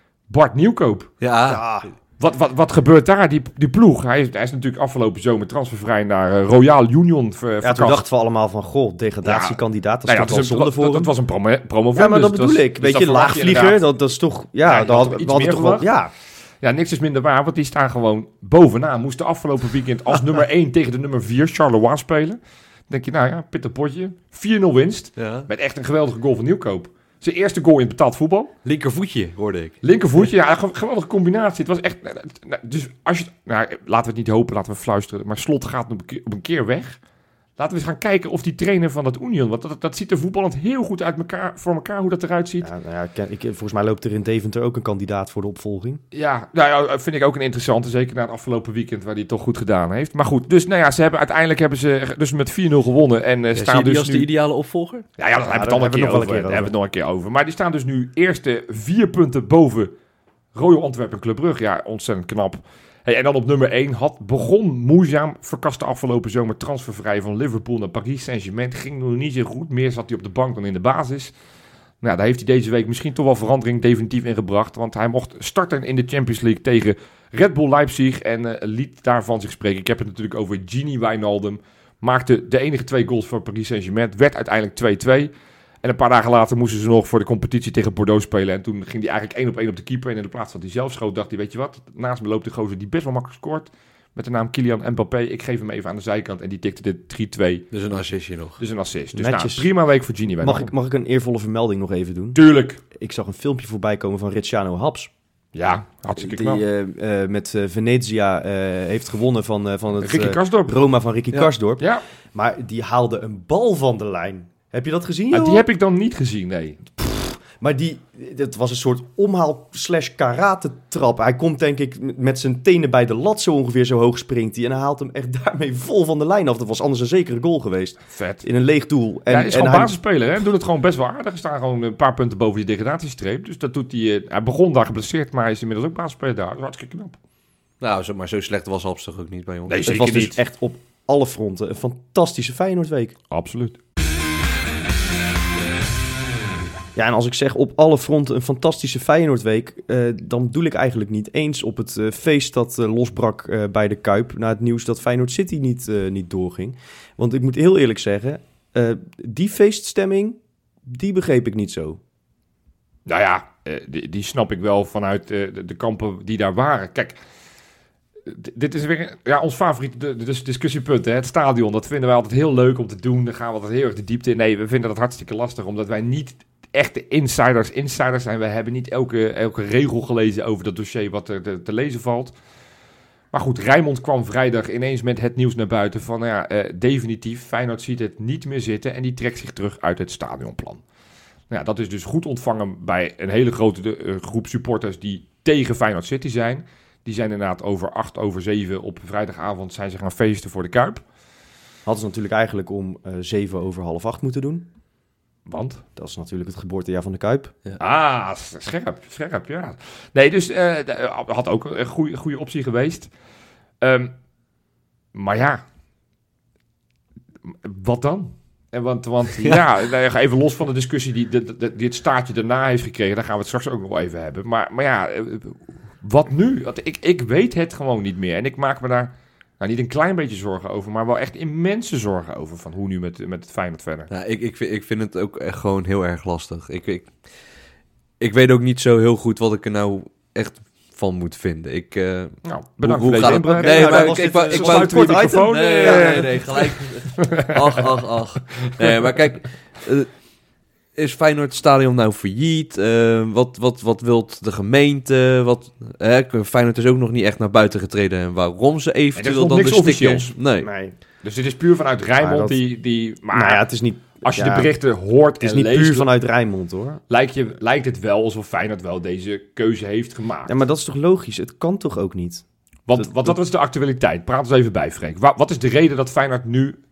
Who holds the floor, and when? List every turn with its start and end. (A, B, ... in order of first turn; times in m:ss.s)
0:00.3-0:01.1 A
0:01.2-0:01.6 B
0:01.5-0:01.9 C
0:02.2-0:08.1 A
0:07.6-0:11.1 C
0:09.2-0:13.8 A
0:12.0-0:16.1 C
0:14.7-0:15.9 A
0:16.6-0:28.5 A
0:25.2-0:25.5 B
0:28.6-0:29.8 B
0:29.8-0:37.0 A
0:37.6-0:42.7 A
0:42.6-0:46.0 C
0:46.1-0:54.3 A
0:53.6-0:55.0 B
0:55.2-1:00.0 A
0:55.4-0:56.7 C
1:00.5-1:11.3 A
1:12.0-1:25.3 A
1:25.8-1:37.7 A
1:37.7-1:38.6 B
1:38.6-1:40.7 A
1:39.2-1:39.7 C
1:40.4-1:42.4 C
1:42.4-1:42.8 A
1:42.9-1:45.1 C
1:45.6-1:46.6 A
1:46.2-1:51.8 C
1:50.0-1:50.8 A
1:52.3-1:55.6 C
1:55.3-1:57.0 A
1:57.0-2:09.9 C
2:08.1-2:08.4 A
2:09.3-2:17.2 A
2:17.8-2:20.0 B
2:19.7-2:20.4 A
2:19.8-2:23.2 C
2:23.3-2:23.8 A
2:27.0-2:42.0 C
2:43.1-2:47.2 A
2:48.3-3:02.3 A
3:03.3-3:10.8 A
3:11.5-3:21.0 A
3:21.9-3:24.7 C
3:25.5-3:25.8 A
3:26.0-3:27.5 C
3:27.8-3:33.1 A
3:33.8-3:34.1 A
3:35.1-3:35.6 A
3:37.5-3:54.1 A
3:54.1-3:57.2 B
3:58.2-4:10.1 B
4:02.4-4:07.8 A
4:03.6-4:06.2 C
4:11.0-4:20.7 B
4:19.2-4:20.4 A
4:20.6-4:20.9 C
4:21.2-4:26.1 A
4:22.2-4:22.6 C
4:23.3-4:24.7 C
4:25.4-4:27.0 C
4:27.1-4:30.5 A
4:30.5-4:32.4 C
4:32.9-4:36.8 A
4:33.0-4:33.4 C